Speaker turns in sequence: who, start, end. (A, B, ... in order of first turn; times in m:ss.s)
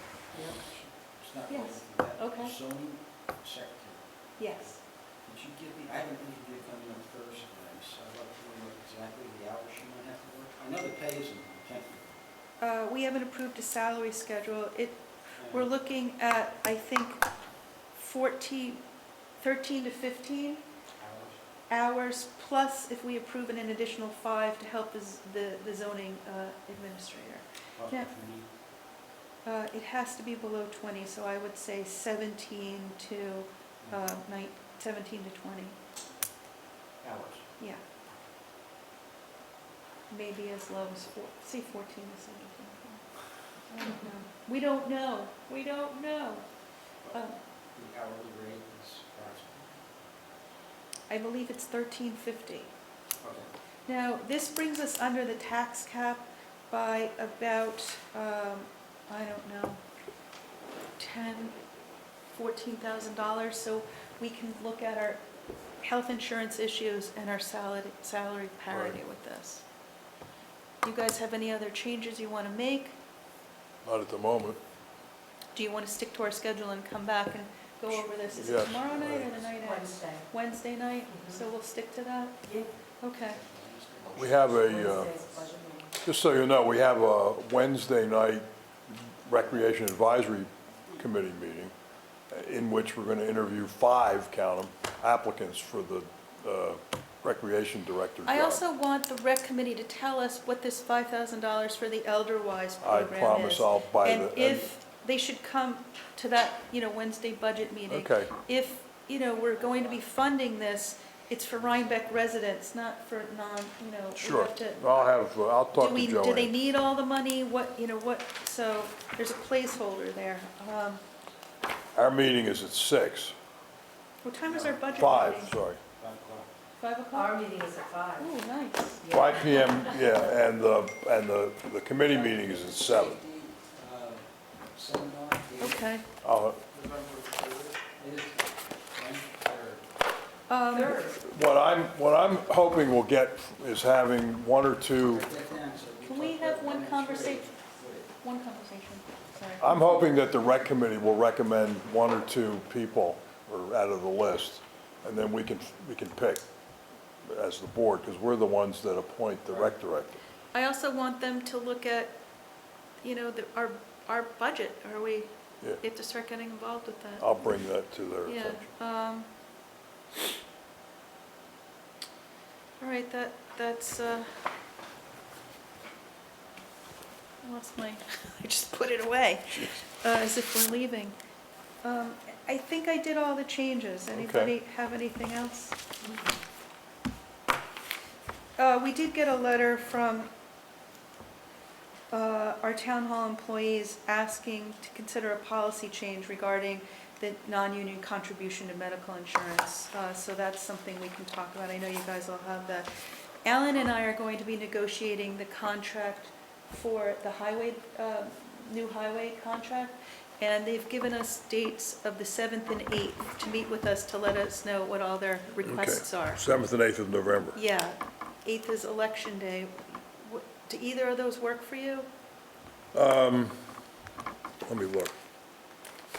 0:00.3-0:04.7 A
0:01.5-0:02.6 B
0:04.4-0:04.8 B
0:05.2-0:12.1 A
0:12.6-0:17.2 B
0:15.4-0:15.7 A
0:17.9-0:18.8 B
0:19.4-0:20.6 B
0:21.0-0:21.4 A
0:21.7-0:28.1 B
0:27.8-0:28.5 A
0:29.4-0:35.8 B
0:37.0-0:37.4 A
0:40.1-0:43.0 B
0:43.7-0:46.4 B
0:47.1-0:47.4 B
0:47.7-0:49.8 A
0:51.1-0:52.7 B
0:53.2-0:53.5 A
0:53.9-0:59.8 B
1:01.0-1:01.6 B
1:02.3-1:05.2 B
1:05.8-1:09.6 B
1:08.7-1:09.0 C
1:10.8-1:13.0 B
1:13.8-1:14.6 C
1:15.5-1:22.4 B
1:18.4-1:19.4 C
1:19.6-1:20.2 D
1:21.1-1:21.4 D
1:22.4-1:22.7 D
1:23.0-1:23.4 B
1:23.2-1:25.5 A
1:24.1-1:25.2 C
1:24.6-1:25.9 D
1:26.0-1:31.7 C
1:32.3-1:38.6 C
1:38.2-1:54.8 B
1:42.8-1:44.7 C
1:47.9-1:48.3 C
1:49.6-1:50.0 A
1:54.2-1:56.5 C
1:55.7-2:01.0 B
2:01.9-2:03.3 C
2:04.2-2:05.6 B
2:04.4-2:05.4 A
2:05.0-2:05.8 C
2:06.0-2:06.5 A
2:06.8-2:07.5 B
2:07.1-2:08.3 D
2:08.2-2:09.0 B
2:09.0-2:09.8 D
2:09.1-2:13.2 C
2:12.0-2:15.9 A
2:15.6-2:16.0 B
2:16.2-2:17.8 C
2:17.9-2:19.8 A
2:20.5-2:21.1 B
2:20.7-2:21.2 D
2:21.1-2:25.3 C
2:25.0-2:28.1 A
2:26.0-2:27.5 B
2:28.2-2:30.0 B
2:29.6-2:36.4 C
2:37.2-2:40.2 C
2:40.5-2:42.2 B
2:43.0-2:47.3 B
2:47.2-2:48.7 C
2:48.2-2:49.3 B
2:52.8-2:54.4 B
2:57.4-3:01.2 B
2:59.5-2:59.8 C
3:01.8-3:05.8 B
3:04.1-3:04.5 C
3:08.6-3:10.3 B
3:12.1-3:22.9 B
3:23.4-3:36.4 B
3:35.6-3:37.6 C
3:37.5-3:42.1 B
3:42.9-3:43.5 C
3:44.6-3:45.1 C